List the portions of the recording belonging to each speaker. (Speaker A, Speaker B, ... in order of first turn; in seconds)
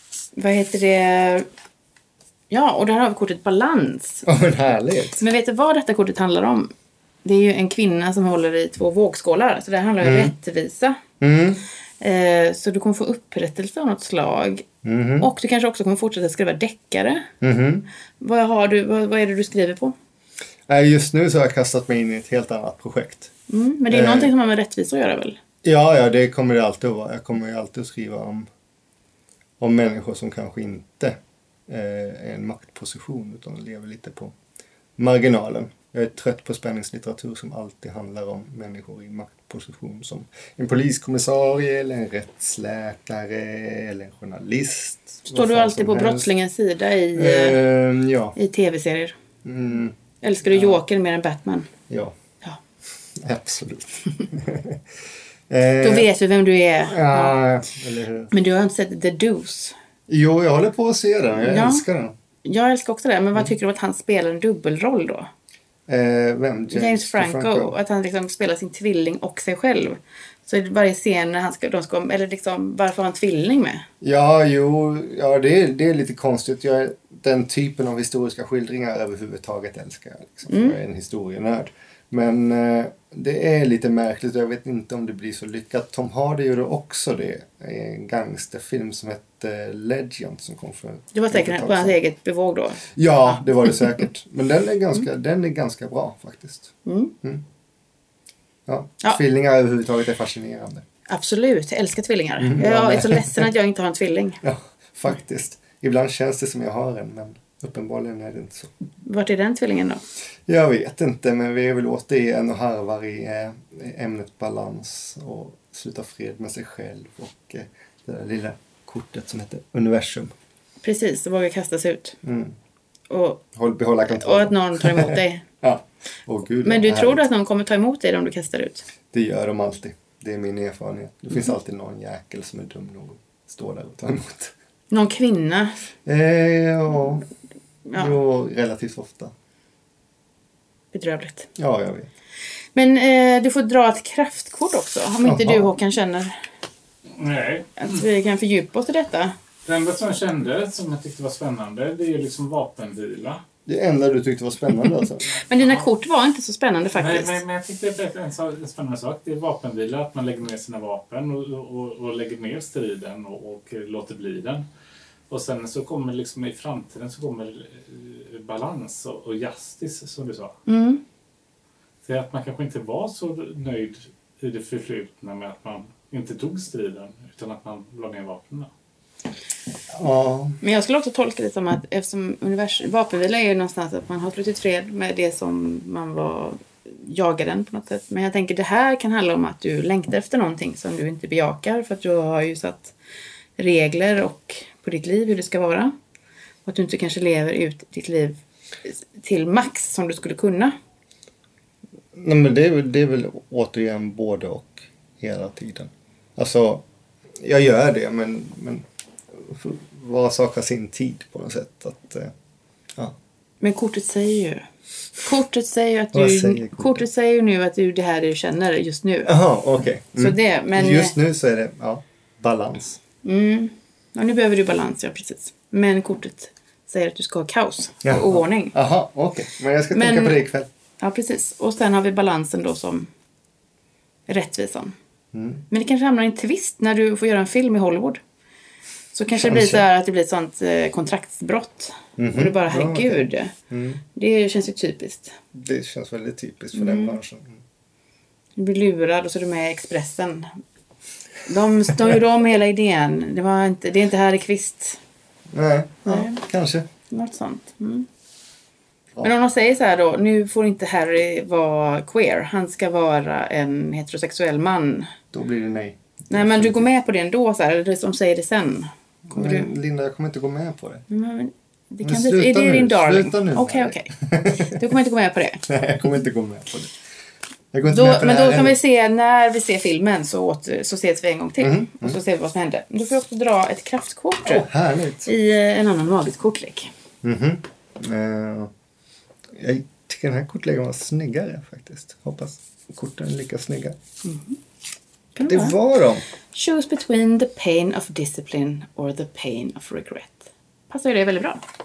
Speaker A: 0.3-1.5, 2.5-4.2, 5.2-6.7, 7.2-11.0, 12.0-14.7, 15.2-17.3, 18.2-19.9, 23.5-25.4, 45.2-47.6, 48.3-49.1, 50.2-51.7, 55.8-57.4, 58.3-59.7, 61.4-61.8, 62.4-65.3, 66.7-73.8, 80.5-80.8, 91.1-94.0, 96.8-97.1, 101.1-104.4, 109.0-110.0, 120.8-122.2, 123.1-123.5, 124.1-125.4, 126.6-128.9, 134.9-135.8, 137.9-138.2, 140.9-141.5, 142.7-146.4, 147.8-149.3, 155.3-157.4, 170.7-171.0, 180.6-192.9, 193.6-195.9, 196.6-200.8, 213.6-214.7, 215.2-219.3, 220.1-221.2, 223.2-228.8, 229.9-230.4, 231.0-233.1, 234.3-234.9, 235.7-238.2, 239.1-243.5, 244.1-245.4, 246.7-247.2, 248.6-250.6, 251.4-255.0, 256.1-256.4, 257.1-258.1, 259.2-265.1, 266.3-269.7, 271.1-275.6, 277.9-284.7, 285.2-286.9, 294.2-294.6, 295.4-295.8, 296.5-301.6
Speaker B: 4.2-5.2, 10.0-10.3, 11.2-11.6, 14.8-15.3, 17.4-17.9, 20.7-23.3, 23.9-24.3, 25.6-28.5, 29.6-34.3, 35.0-46.3, 47.1-48.3, 49.4-50.0, 50.5-50.8, 51.9-52.2, 53.1-54.8, 55.5-56.1, 56.9-58.3, 60.1-62.1, 65.9-67.8, 74.0-92.0, 92.9-97.4, 98.7-100.8, 102.4-103.5, 104.4-108.7, 110.5-120.3, 122.2-122.5, 123.5-127.2, 129.1-134.5, 136.0-137.2, 137.9-139.3, 141.6-142.1, 145.2-145.7, 153.7-155.3, 179.9-180.6, 202.1-206.8, 207.4-212.3, 216.1-217.1, 219.2-223.0, 228.0-230.7, 235.3-235.6, 239.3-239.8, 242.2-244.0, 245.5-247.6, 255.5-256.9, 265.3-266.9, 269.3-271.0, 272.0-274.8, 275.6-276.9, 277.7-278.8, 281.6-282.2, 284.4-285.3, 287.2-288.7, 289.5-294.0, 295.4-296.2
Speaker C: 147.1-148.0, 149.7-153.4, 156.9-164.6, 165.3-170.6, 172.0-178.7